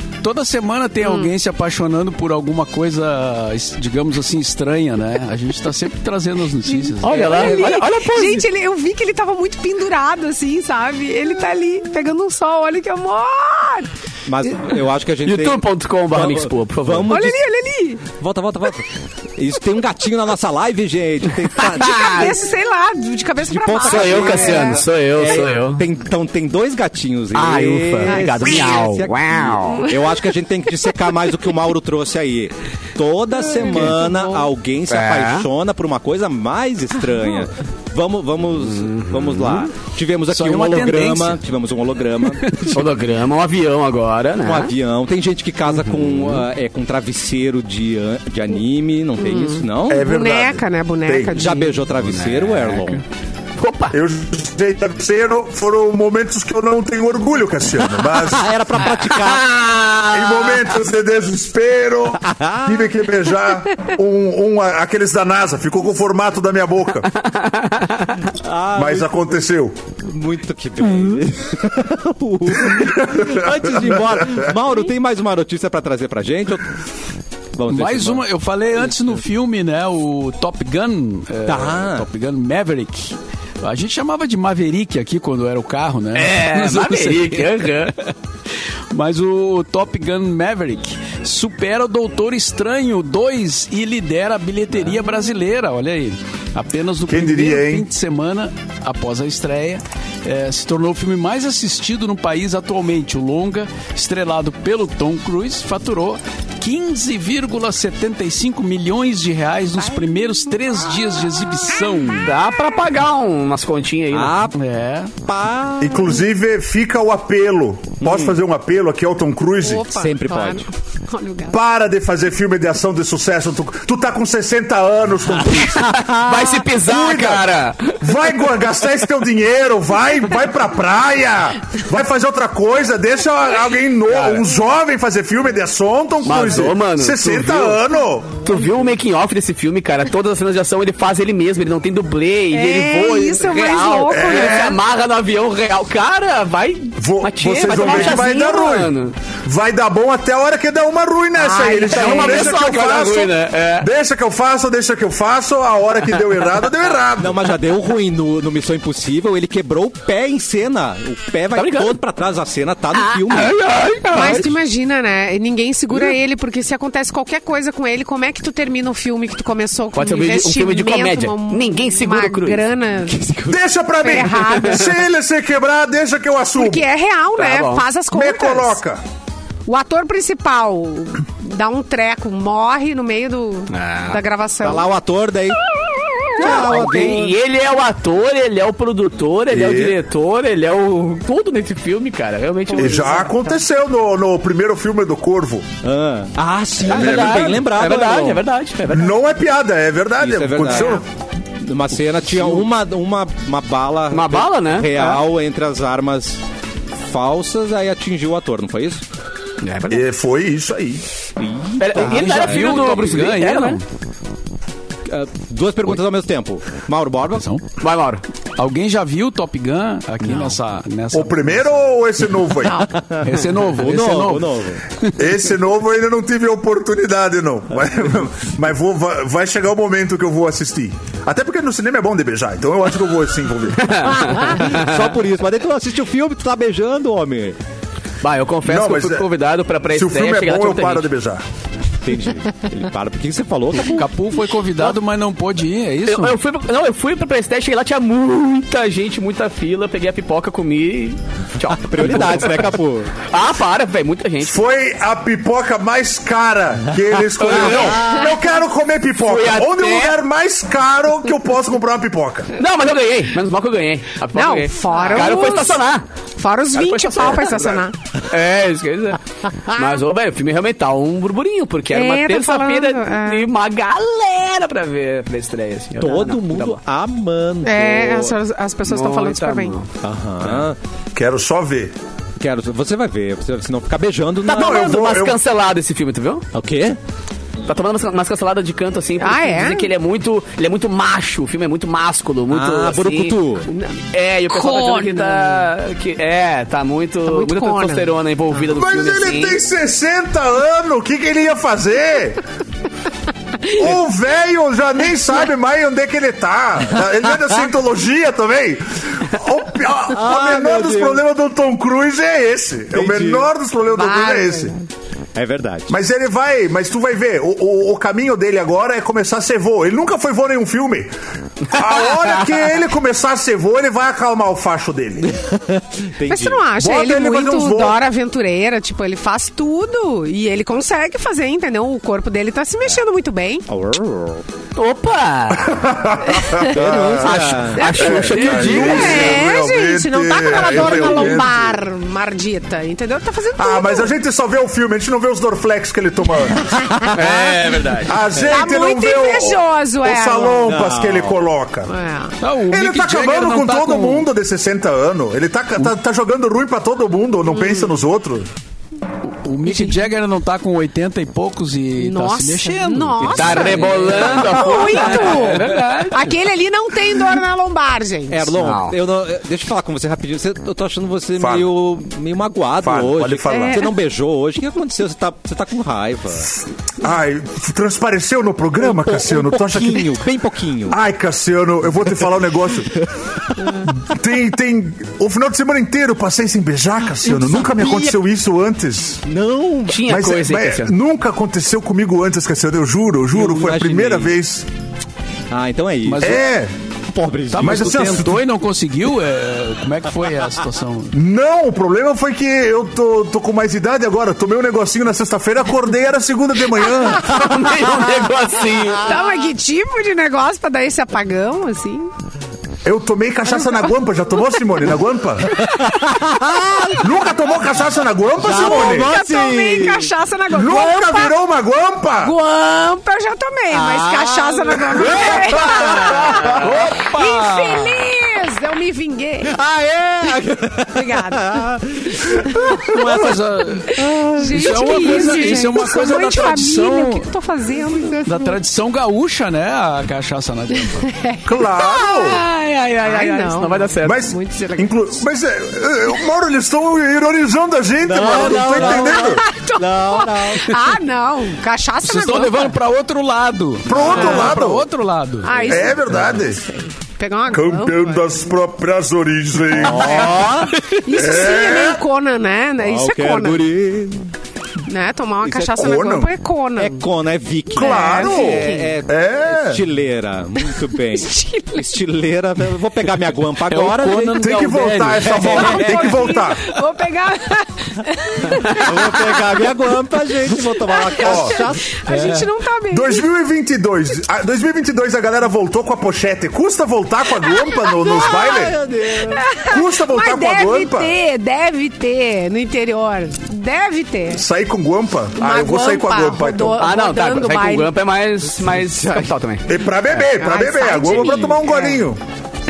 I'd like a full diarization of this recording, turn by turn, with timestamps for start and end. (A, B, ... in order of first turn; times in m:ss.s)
0:00.2-0:07.5 A
0:01.0-0:01.3 B
0:06.7-0:13.9 B
0:07.0-0:08.4 C
0:07.4-0:07.7 D
0:14.2-0:17.4 D
0:15.2-0:17.1 C
0:17.1-0:18.0 B
0:18.2-0:22.3 D
0:21.6-0:22.3 C
0:21.9-0:24.8 B
0:23.4-0:42.8 D
0:23.8-0:25.8 C
0:27.3-0:29.9 C
0:28.1-0:28.7 B
0:33.5-0:34.5 B
0:34.9-0:35.5 C
0:38.6-0:39.7 C
0:40.3-0:41.4 A
0:42.7-0:44.7 C
0:44.4-0:50.1 D
0:45.7-0:46.4 C
0:49.2-0:51.8 B
0:49.9-0:51.4 E
0:51.3-0:53.0 D
0:52.0-0:53.0 C
0:53.6-0:54.0 C
0:53.9-0:58.5 E
0:58.0-1:00.7 D
1:00.1-1:07.1 E
1:02.2-1:02.9 D
1:07.2-1:08.2 C
1:08.4-1:09.4 D
1:08.7-1:09.7 E
1:10.0-1:16.7 D
1:12.8-1:14.0 E
1:17.6-1:18.2 D
1:17.7-1:27.9 A
1:21.4-1:22.1 D
1:26.1-1:27.9 C
1:28.9-1:52.3 A
1:37.1-1:37.9 E
1:52.2-1:54.4 C
1:54.1-1:54.6 D
1:54.5-1:55.1 A
1:55.2-1:56.2 D
1:55.8-1:59.8 E
1:58.0-1:58.4 D
1:59.6-2:01.6 B
1:59.9-2:00.7 D
2:01.5-2:06.0 E
2:05.6-2:08.3 C
2:06.0-2:06.4 D
2:06.8-2:07.5 E
2:08.0-2:18.4 E
2:14.1-2:14.4 C
2:16.2-2:17.8 C
2:18.4-2:29.2 C
2:22.5-2:24.8 B
2:24.1-2:24.7 E
2:27.0-2:37.4 E
2:31.4-2:32.6 B
2:31.6-2:33.9 C
2:37.2-2:43.6 D
2:41.5-2:42.0 C
2:42.9-2:44.5 C
2:44.1-2:53.2 B
2:44.1-2:44.5 D
2:49.9-2:53.4 C
2:53.5-2:56.8 E
2:54.0-2:55.0 B
2:56.5-2:58.8 B
2:57.4-2:57.8 C
2:58.1-2:59.0 E
2:59.6-3:04.9 B
3:03.7-3:04.2 C
3:04.6-3:05.6 D
3:06.4-3:07.4 D
3:06.4-3:13.3 C
3:09.5-3:10.0 E
3:12.7-3:13.6 B
3:12.8-3:15.7 E
3:15.8-3:18.4 D
3:16.8-3:19.2 C
3:18.9-3:21.0 E
3:20.2-3:21.0 D
3:21.6-3:26.4 D
3:24.1-3:25.2 C
3:27.0-3:29.0 D
3:29.6-3:30.0 C
3:29.9-3:31.0 E
3:31.4-3:33.1 D
3:31.8-3:33.8 C
3:32.0-3:33.8 A
3:35.1-3:37.4 D
3:37.4-3:37.6 A
3:37.8-3:38.2 C
3:38.6-3:41.8 A
3:41.1-3:42.9 E
3:42.7-3:44.8 D
3:43.2-3:44.5 A
3:45.2-3:54.1 E
3:53.8-3:54.9 C
3:54.1-3:57.6 D
3:58.2-4:01.1 C
3:58.6-3:59.3 E
3:59.9-4:01.4 E
4:02.0-4:04.0 D
4:03.9-4:06.4 A
4:06.1-4:12.7 C
4:11.8-4:13.2 D
4:13.3-4:14.6 C
4:14.4-4:22.5 E
4:17.4-4:18.2 C
4:17.5-4:18.1 D
4:19.2-4:20.2 C
4:22.6-4:26.0 C
4:24.3-4:25.8 B
4:26.4-4:27.9 B
4:26.7-4:36.8 C
4:31.9-4:33.5 B
4:36.0-4:38.4 D
4:37.6-4:39.7 B
4:38.8-4:39.9 C
4:40.0-4:40.8 D
4:41.1-4:41.9 E
4:42.4-4:44.9 D
4:44.5-4:46.4 C
4:44.5-4:45.4 E
4:46.5-4:47.0 D
4:47.6-4:53.4 C
4:49.2-4:49.9 B
4:52.5-4:53.7 D
4:53.7-4:54.0 B
4:54.1-4:59.6 C
4:54.5-4:55.7 B
4:57.2-4:58.1 B
4:58.6-5:02.4 E
5:03.8-5:14.7 E
5:10.1-5:11.2 D
5:12.9-5:13.5 D
5:13.9-5:14.7 B
5:15.3-5:15.9 D
5:15.9-5:21.1 E
5:21.7-5:25.3 E
5:25.5-5:26.6 D
5:26.3-5:33.7 B
5:26.8-5:28.0 E
5:33.7-5:34.4 D
5:34.8-5:35.8 C
5:35.5-5:41.7 E
5:36.6-5:38.2 D
5:37.2-5:39.4 C
5:37.8-5:44.1 B
5:38.2-5:39.2 A
5:40.6-5:41.7 D
5:43.6-5:46.9 E
5:47.0-5:47.6 D
5:47.1-5:48.1 C
5:48.0-5:51.9 E
5:48.4-5:50.8 B
5:50.6-5:51.4 D
5:51.9-5:52.4 B
5:52.4-5:54.3 A
5:52.7-5:58.5 E
5:57.5-5:57.9 B
5:59.3-6:06.1 A
5:59.6-6:00.0 B
6:02.0-6:08.5 B
6:03.3-6:06.3 C
6:03.5-6:04.5 D
6:08.3-6:16.5 D
6:08.6-6:09.0 C
6:11.4-6:11.7 E
6:12.8-6:13.8 E
6:13.5-6:13.9 B
6:17.0-6:20.2 E
6:18.8-6:21.0 D
6:20.9-6:23.0 E
6:23.6-6:23.9 D
6:24.0-6:29.2 E
6:27.2-6:28.2 D
6:29.2-6:30.0 D
6:29.9-6:30.9 C
6:30.0-6:34.6 E
6:33.3-6:34.4 D
6:35.5-6:36.4 D
6:36.0-6:36.4 A
6:36.2-6:36.7 E
6:37.1-6:38.0 D
6:37.5-6:41.1 A
6:37.6-6:38.4 E
6:41.1-6:47.4 E
6:47.2-6:49.2 C
6:49.0-6:52.1 B
6:52.8-6:55.6 E
6:53.5-6:54.8 B
6:55.6-6:57.0 B
6:55.8-6:57.1 D
6:57.0-6:59.1 E
6:58.4-7:00.1 D
6:58.4-7:01.4 B
7:00.5-7:02.3 E
7:02.2-7:09.6 B
7:03.7-7:06.6 D
7:06.0-7:06.9 C
7:06.4-7:08.0 A
7:09.4-7:13.3 D
7:10.9-7:12.8 B
7:12.9-7:17.3 A
7:13.9-7:18.6 B
7:13.9-7:15.8 D
7:18.2-7:21.1 A
7:20.8-7:22.4 B
7:21.4-7:22.4 E
7:22.3-7:24.2 C
7:23.0-7:25.2 B
7:24.0-7:29.4 E
7:28.0-7:30.8 D
7:28.4-7:32.8 B
7:32.0-7:35.6 A
7:33.8-7:34.9 E
7:34.0-7:34.6 B
7:35.4-7:38.2 B
7:35.6-7:36.3 D
7:35.6-7:36.6 E
7:37.5-7:40.4 E
7:39.7-7:40.8 D
7:39.8-7:43.7 B
7:41.1-7:42.0 E
7:42.8-7:44.3 D
7:44.8-7:47.0 B
7:45.4-7:46.0 D
7:45.7-7:46.3 E
7:46.8-7:54.6 D
7:47.7-7:49.0 B
7:47.7-7:49.8 E
7:51.1-7:52.0 B
7:53.7-7:56.0 A
7:54.4-7:56.7 E
7:55.1-7:55.8 D
7:55.4-7:59.7 B
7:58.4-8:02.4 D
8:00.8-8:03.2 B
8:01.2-8:01.6 E
8:02.1-8:02.4 A
8:02.9-8:08.8 E
8:07.4-8:08.5 B
8:08.0-8:09.5 D
8:09.2-8:14.4 B
8:09.7-8:11.1 E
8:14.3-8:16.8 E
8:15.4-8:17.9 B
8:16.8-8:19.8 C
8:19.7-8:22.2 E
8:20.3-8:22.1 B